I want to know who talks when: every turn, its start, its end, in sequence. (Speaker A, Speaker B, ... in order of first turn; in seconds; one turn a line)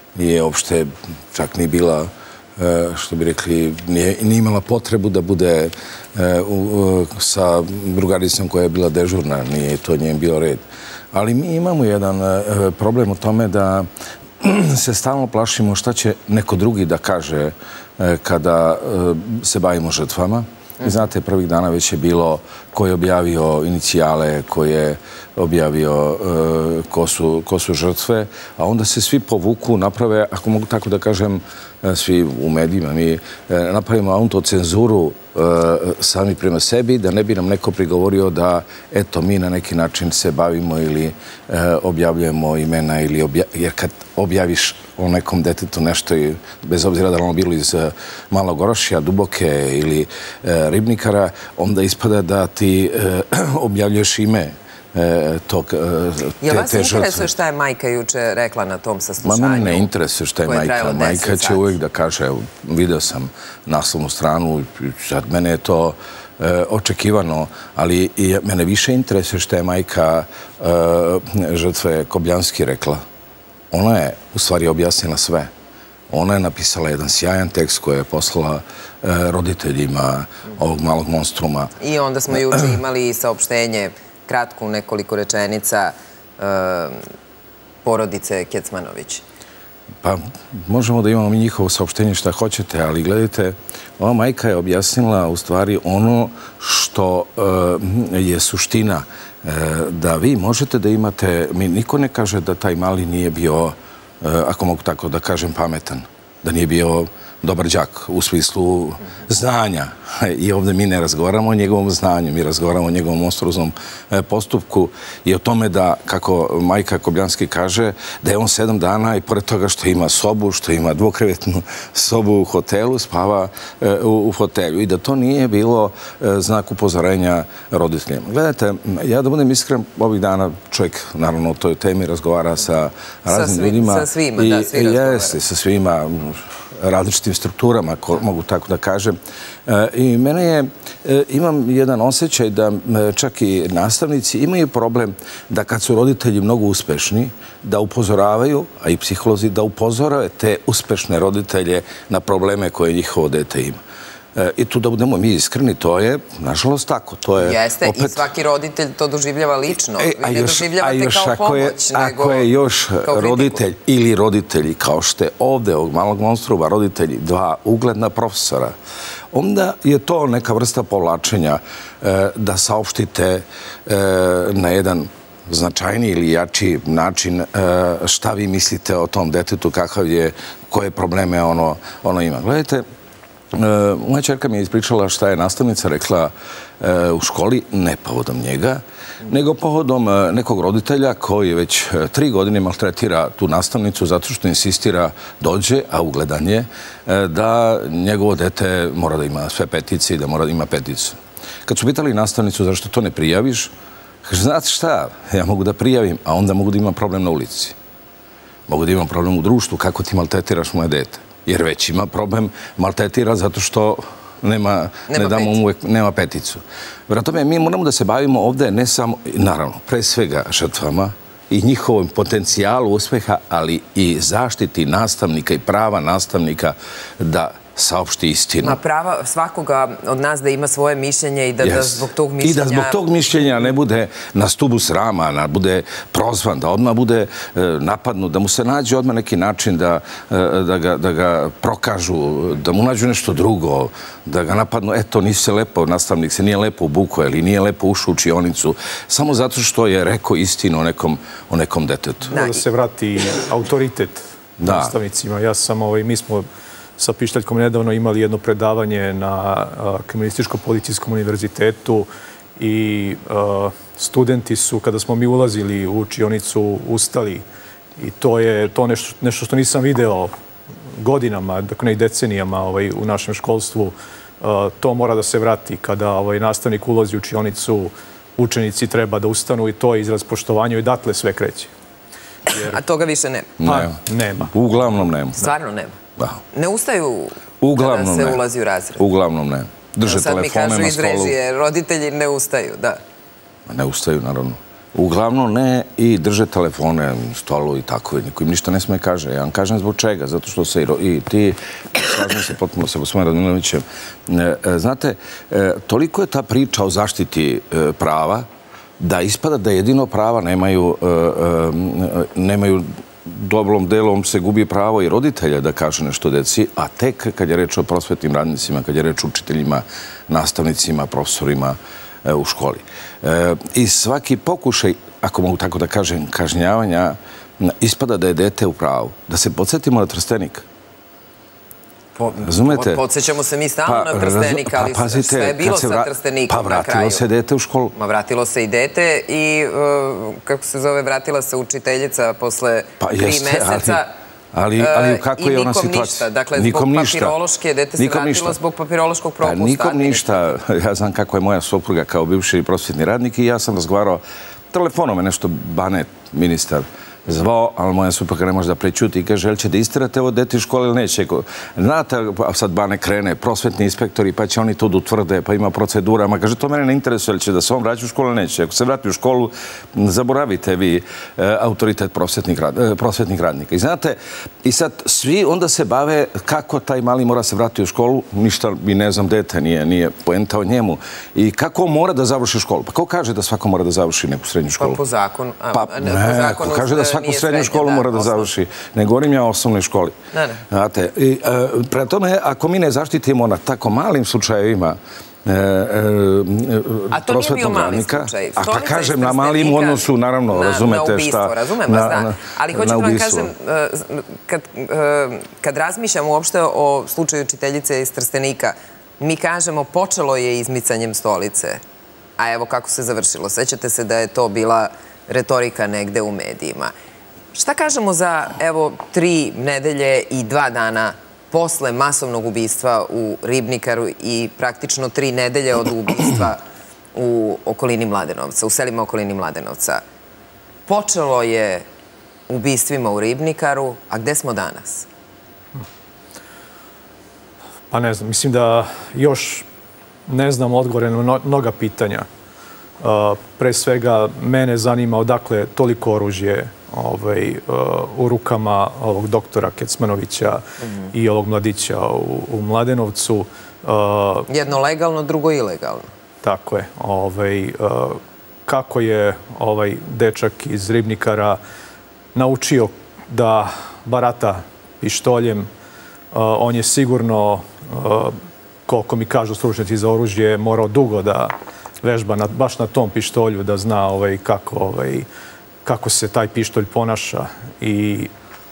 Speaker A: 0.1-57.2
Speaker B: 56.4-59.9
Speaker A: 59.2-73.0
Speaker B: 60.4-61.8
Speaker A: 73.7-75.5
Speaker A: 76.1-81.7
Speaker B: 81.8-87.0
Speaker B: 87.8-89.2
Speaker A: 90.0-153.8
Speaker B: 133.2-135.4
Speaker A: 154.3-158.2
Speaker B: 157.3-162.5
Speaker A: 160.0-168.7
Speaker B: 163.0-163.6
Speaker A: 169.3-182.8
Speaker A: 183.5-203.7
Speaker A: 204.2-207.8
Speaker A: 208.7-228.8
Speaker B: 215.1-215.6
Speaker B: 228.6-233.0
Speaker A: 231.6-252.3
Speaker B: 252.3-252.6
Speaker C: 252.3-256.4
Speaker A: 254.6-254.9
Speaker C: 257.0-267.4
Speaker C: 268.0-270.3
Speaker C: 271.0-281.7
Speaker B: 282.5-283.5
Speaker A: 283.6-285.5
Speaker C: 283.6-284.5
Speaker B: 285.4-286.0
Speaker B: 286.5-289.0
Speaker A: 287.6-288.4
Speaker A: 289.0-291.4
Speaker B: 290.0-293.0
Speaker A: 293.7-308.5
Speaker A: 309.0-330.6
Speaker B: 332.2-337.2
Speaker A: 332.4-333.0
Speaker A: 333.9-337.9
Speaker B: 337.9-344.1
Speaker A: 343.0-344.0
Speaker A: 344.5-347.4
Speaker B: 344.8-350.5
Speaker A: 348.0-348.6
Speaker A: 349.4-385.0
Speaker B: 384.8-388.5
Speaker A: 385.7-390.1
Speaker B: 390.3-390.6
Speaker A: 390.7-403.5
Speaker B: 397.1-411.8
Speaker B: 412.4-416.9
Speaker B: 417.5-426.6
Speaker B: 427.1-430.0
Speaker B: 430.9-431.8
Speaker B: 432.5-435.1
Speaker C: 437.9-439.6
Speaker C: 440.3-442.3
Speaker C: 443.0-454.5
Speaker B: 454.5-456.1
Speaker C: 456.4-461.6
Speaker C: 462.3-465.7
Speaker C: 466.3-475.3
Speaker C: 475.8-478.3